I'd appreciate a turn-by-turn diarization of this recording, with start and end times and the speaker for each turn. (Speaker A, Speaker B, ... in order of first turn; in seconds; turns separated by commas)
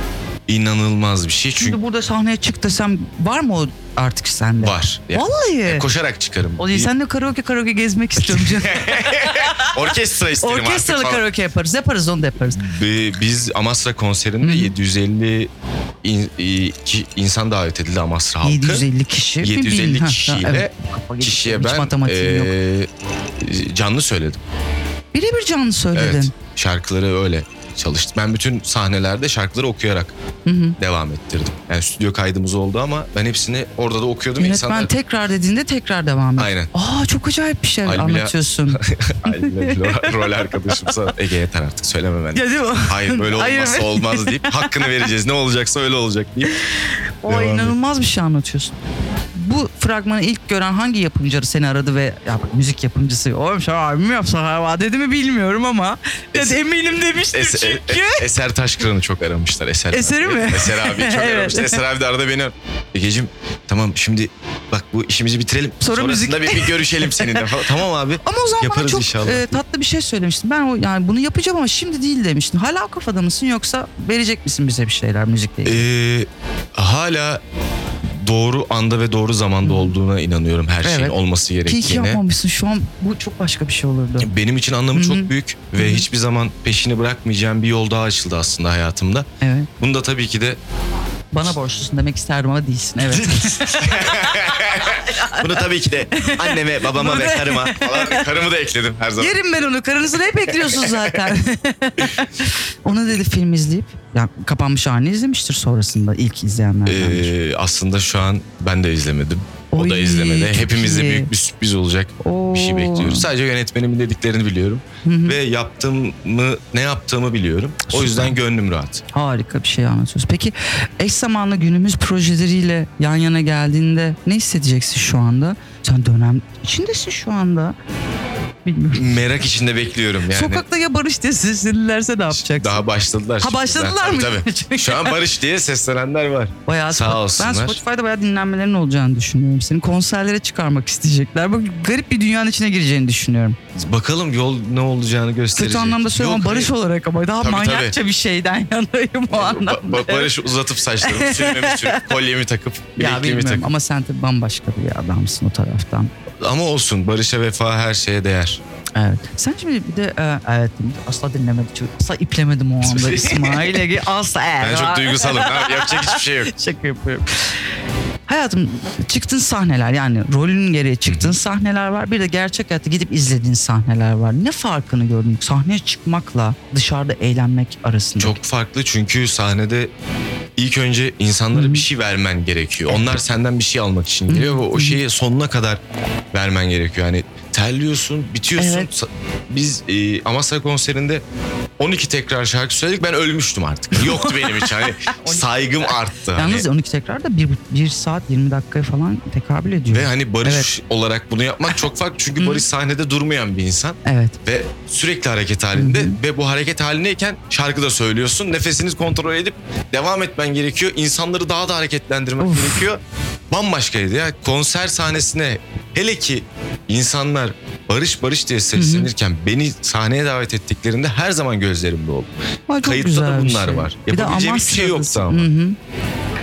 Speaker A: 0.5-1.8, Speaker B: 1.6-5.9, Speaker A: 4.6-6.9, Speaker B: 6.6-12.6, Speaker A: 8.2-11.2, Speaker A: 12.4-15.5, Speaker B: 14.4-14.7, Speaker A: 16.0-18.9, Speaker B: 18.4-22.5, Speaker A: 19.4-22.9, Speaker A: 23.4-24.4, Speaker B: 25.1-26.3, Speaker A: 25.9-30.1, Speaker B: 30.4-30.8, Speaker A: 30.8-34.9, Speaker B: 34.4-40.9, Speaker A: 36.4-36.7, Speaker A: 37.8-46.6, Speaker B: 42.3-45.0, Speaker B: 46.5-48.8, Speaker A: 47.2-47.8, Speaker B: 49.3-58.3, Speaker A: 56.3-56.6, Speaker A: 57.3-69.6, Speaker B: 59.9-61.8, Speaker B: 65.8-67.5, Speaker B: 68.2-75.8, Speaker A: 75.6-77.4, Speaker A: 78.1-82.2, Speaker B: 79.6-79.9, Speaker B: 80.8-84.3, Speaker A: 84.2-89.3, Speaker B: 84.9-86.1, Speaker B: 89.4-89.7, Speaker A: 89.8-90.6, Speaker B: 91.3-98.3, Speaker A: 93.0-99.4, Speaker B: 99.2-107.3, Speaker A: 100.5-101.3, Speaker A: 106.8-119.0, Speaker B: 109.7-111.3, Speaker B: 112.2-113.3, Speaker B: 115.0-115.4, Speaker B: 117.9-118.4, Speaker B: 119.1-127.8, Speaker B: 128.6-129.1, Speaker A: 128.9-130.6, Speaker B: 130.3-132.8, Speaker A: 132.3-137.8, Speaker B: 133.4-135.2, Speaker B: 136.7-143.6, Speaker A: 143.7-146.7, Speaker B: 145.5-150.3, Speaker A: 147.4-147.9, Speaker A: 149.3-153.7, Speaker B: 151.0-152.1, Speaker B: 153.0-156.1, Speaker A: 156.4-158.6, Speaker B: 158.9-167.5, Speaker A: 162.8-163.8, Speaker A: 164.6-166.5, Speaker B: 168.3-178.4, Speaker A: 171.1-171.3, Speaker A: 178.2-179.9, Speaker A: 180.6-185.8, Speaker B: 181.5-181.8, Speaker B: 184.3-185.0, Speaker A: 186.3-191.2, Speaker B: 188.6-188.9, Speaker A: 191.8-196.7, Speaker B: 193.9-200.7, Speaker A: 199.9-225.5, Speaker B: 202.4-202.6, Speaker B: 204.0-204.4, Speaker B: 205.7-206.2, Speaker B: 212.4-212.8, Speaker B: 218.7-219.1, Speaker B: 222.7-225.8